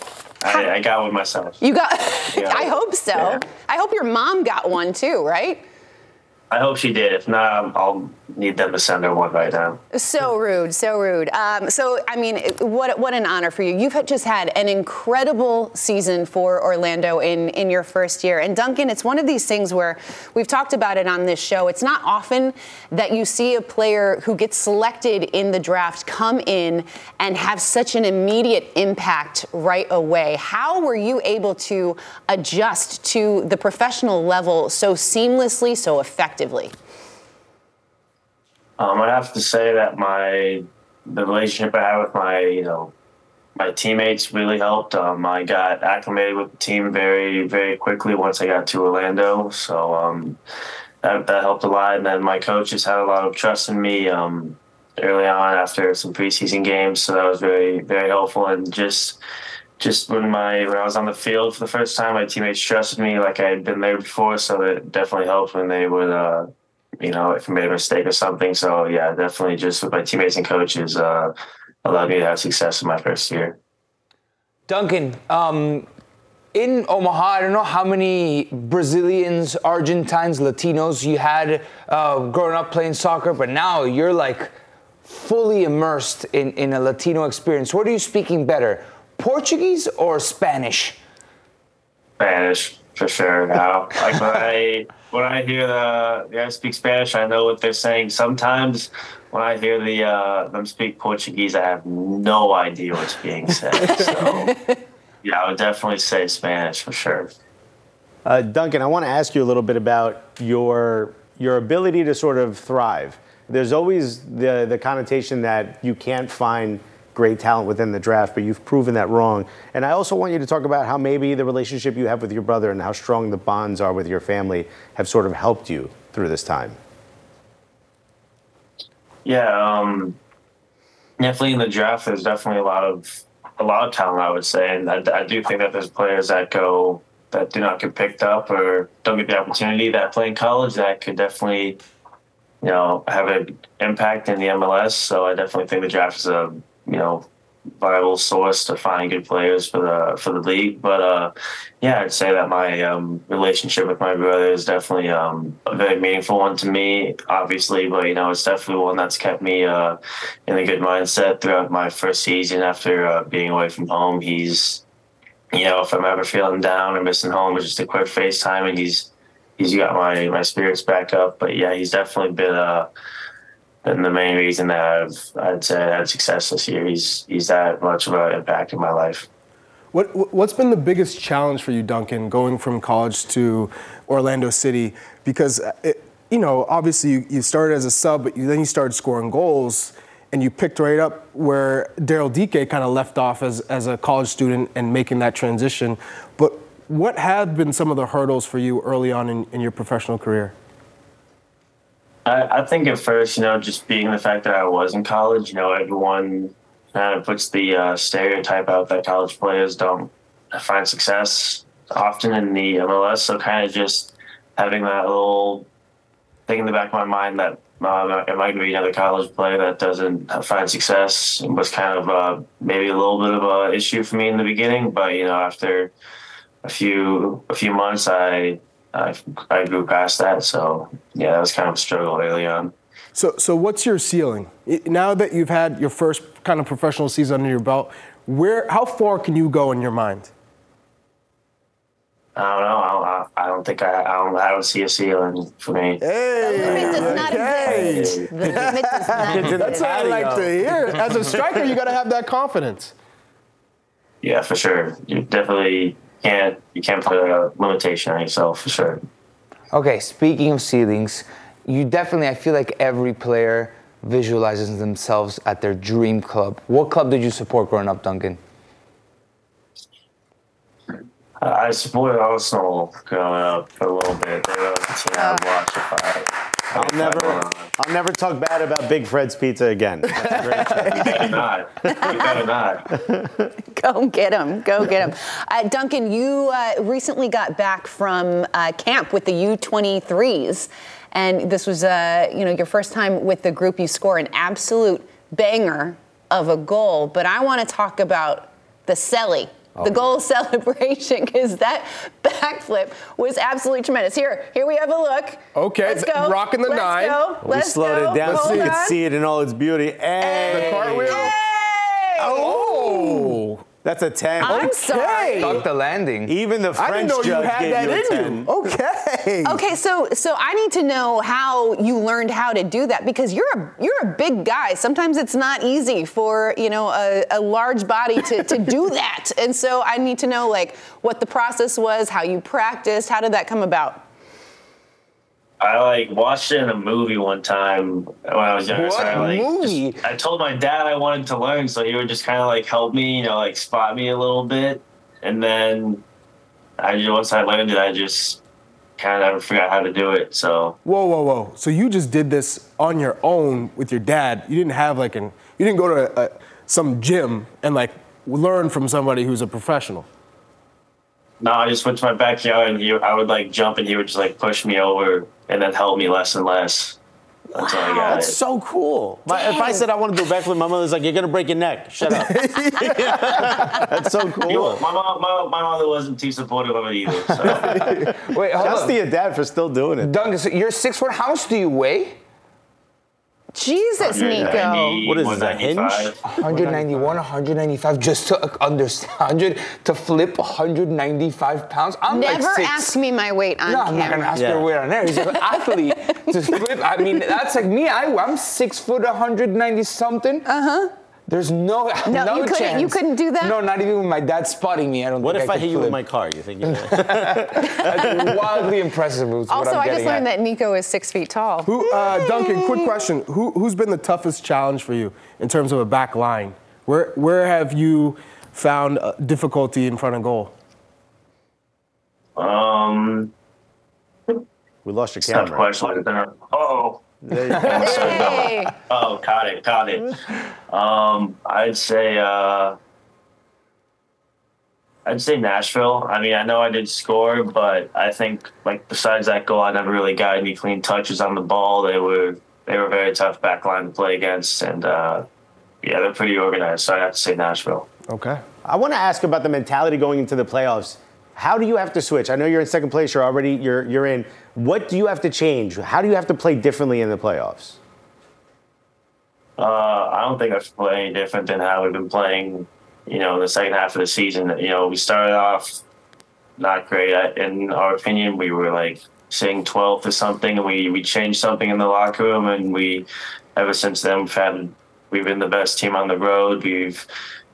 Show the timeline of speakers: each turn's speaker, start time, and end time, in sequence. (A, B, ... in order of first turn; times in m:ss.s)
0:00.4-0:01.6 A
0:01.6-0:05.6 B
0:02.3-0:03.4 A
0:06.5-0:09.8 A
0:09.9-0:36.7 B
0:38.8-0:42.9 A
0:43.6-0:50.4 A
0:51.0-0:59.2 A
0:59.8-1:06.5 A
1:07.0-1:11.3 A
1:11.8-1:13.6 A
1:14.7-1:15.9 C
1:16.5-1:31.0 C
1:32.2-1:44.5 A
1:43.8-1:44.5 B
1:45.2-1:47.3 A
1:48.2-2:06.8 D
2:09.2-2:10.2 A
2:11.2-2:21.8 A
2:22.6-2:27.3 A
2:27.8-2:44.8 A
2:45.5-2:52.9 A
2:53.8-2:59.3 A
2:59.9-3:20.5 E
3:22.3-3:35.7 A
3:36.5-3:45.9 A
3:46.6-3:52.7 A
3:53.2-4:00.3 E
4:02.4-4:06.0 A
4:06.0-4:12.9 E
4:06.4-4:09.8 B
4:06.6-4:08.3 A
4:06.9-4:07.4 D
4:08.4-4:11.7 D
4:14.2-4:19.0 A
4:19.7-4:28.4 C
4:31.4-4:37.7 A
4:35.1-4:35.5 B
4:36.7-4:41.4 D
4:40.9-4:42.9 A
4:41.9-4:42.4 B
4:43.0-4:43.4 D
4:43.7-5:09.0 B
4:59.8-5:00.0 D
5:05.6-5:07.3 E
5:07.4-5:11.3 D
5:08.2-5:08.8 E
5:10.2-5:11.4 E
5:10.5-5:13.4 B
5:12.2-5:13.6 E
5:13.8-5:15.7 D
5:14.4-5:15.6 E
5:14.4-5:15.6 B
5:15.3-5:16.3 C
5:16.2-5:18.8 D
5:16.8-5:19.6 E
5:19.4-5:34.0 B
5:35.6-5:46.0 A
5:38.7-5:40.0 C
5:46.8-5:48.4 A
5:49.0-5:50.8 A
5:50.8-6:00.1 E
6:01.4-6:07.0 A
6:07.6-6:08.4 A
6:07.6-6:08.2 B
6:07.6-6:14.9 D
6:09.3-6:09.9 B
6:12.2-6:13.8 E
6:14.5-6:17.8 A
6:17.5-6:20.3 D
6:17.7-6:18.1 E
6:18.3-6:19.0 C
6:20.0-6:22.2 C
6:23.6-6:25.0 B
6:24.0-6:26.2 A
6:24.4-6:27.1 D
6:26.2-6:33.0 C
6:32.1-6:34.4 B
6:33.7-6:40.5 C
6:34.3-6:34.7 D
6:35.2-6:36.3 B
6:40.5-6:40.9 B
6:41.3-6:46.0 C
6:42.1-6:43.6 B
6:45.2-6:48.7 D
6:46.6-6:50.3 C
6:47.6-6:48.2 B
6:49.5-6:53.1 B
6:51.7-7:00.5 E
7:02.4-7:03.3 A
7:04.8-7:05.7 D
7:05.2-7:07.0 A
7:07.3-7:08.6 D
7:07.5-7:10.1 A
7:07.7-7:08.7 B
7:10.7-7:12.8 A
7:15.1-7:25.2 A
7:25.8-7:27.9 A
7:28.1-7:28.4 E
7:28.7-7:37.8 D
7:39.6-7:45.8 A
7:46.6-7:57.0 A